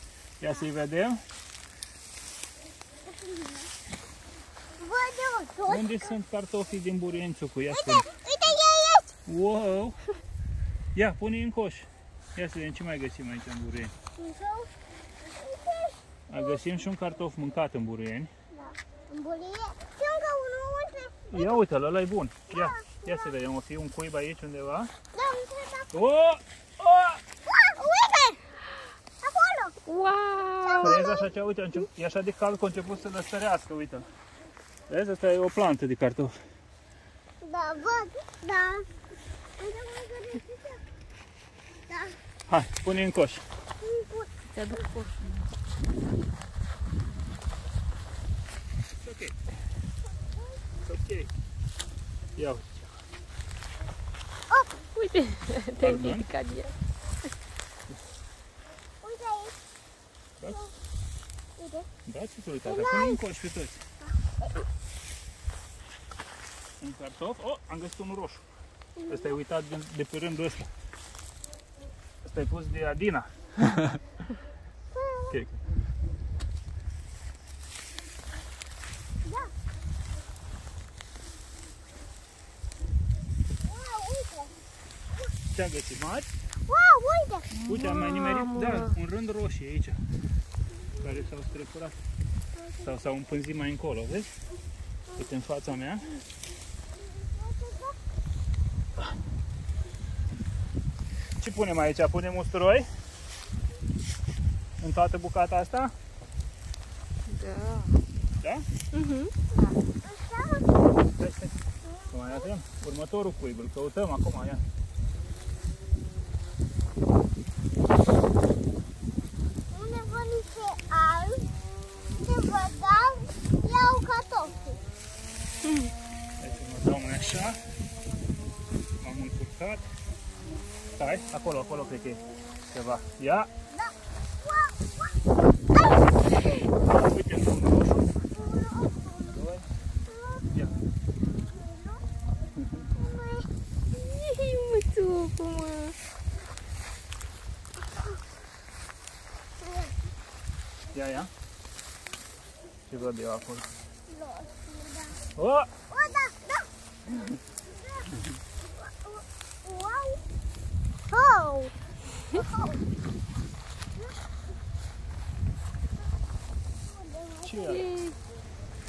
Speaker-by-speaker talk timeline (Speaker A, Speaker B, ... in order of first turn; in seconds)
Speaker A: 0.4-1.2, 5.7-8.1, 9.3-10.0, 10.9-13.9, 16.3-18.3, 21.3-24.9, 25.9-27.2, 30.8-34.1, 34.9-36.3, 42.5-43.4, 49.0-49.4, 50.8-51.3, 52.4-53.0, 55.8-56.3, 62.0-63.8, 66.8-68.5, 69.1-70.7, 72.2-74.0, 75.3-75.6, 85.5-86.3, 87.7-90.0, 91.0-92.0, 92.8-94.3, 95.2-96.2, 101.4-102.9, 104.8-105.9, 108.4-108.7, 111.1-114.6, 126.4-127.6, 129.0-129.9, 131.0-133.5, 136.8-138.2, 139.3-139.7, 142.6-142.9, 150.9-151.3, 152.9-153.7, 155.3-155.7, 167.4-167.9
Speaker B: 3.0-3.7, 4.8-6.2, 7.7-9.1, 14.2-14.7, 15.3-16.6, 18.5-21.6, 22.5-23.2, 25.1-25.9, 27.5-28.6, 29.2-29.7, 30.6-31.3, 37.4-38.9, 39.6-40.8, 41.9-42.1, 43.8-44.8, 50.0-50.6, 54.5-54.7, 59.0-59.6, 60.5-60.7, 61.6-61.9, 62.6-63.2, 64.0-64.7, 69.0-69.3, 74.9-75.4, 79.2-79.5, 83.6-84.5, 86.7-87.5, 97.0-98.0, 109.5-110.7, 111.8-112.5, 119.7-121.5, 122.2-124.8, 133.7-135.1, 138.3-139.4, 140.1-140.4, 141.5-142.0, 142.9-143.5, 149.6-149.9, 154.1-155.2, 155.9-156.7, 157.7-160.2, 161.1-161.7, 162.3-162.8, 166.8-167.8
Speaker C: 29.9-31.0, 44.5-45.5, 54.9-56.7, 87.5-88.9, 107.3-108.0, 108.9-109.3, 143.9-145.9, 167.7-168.2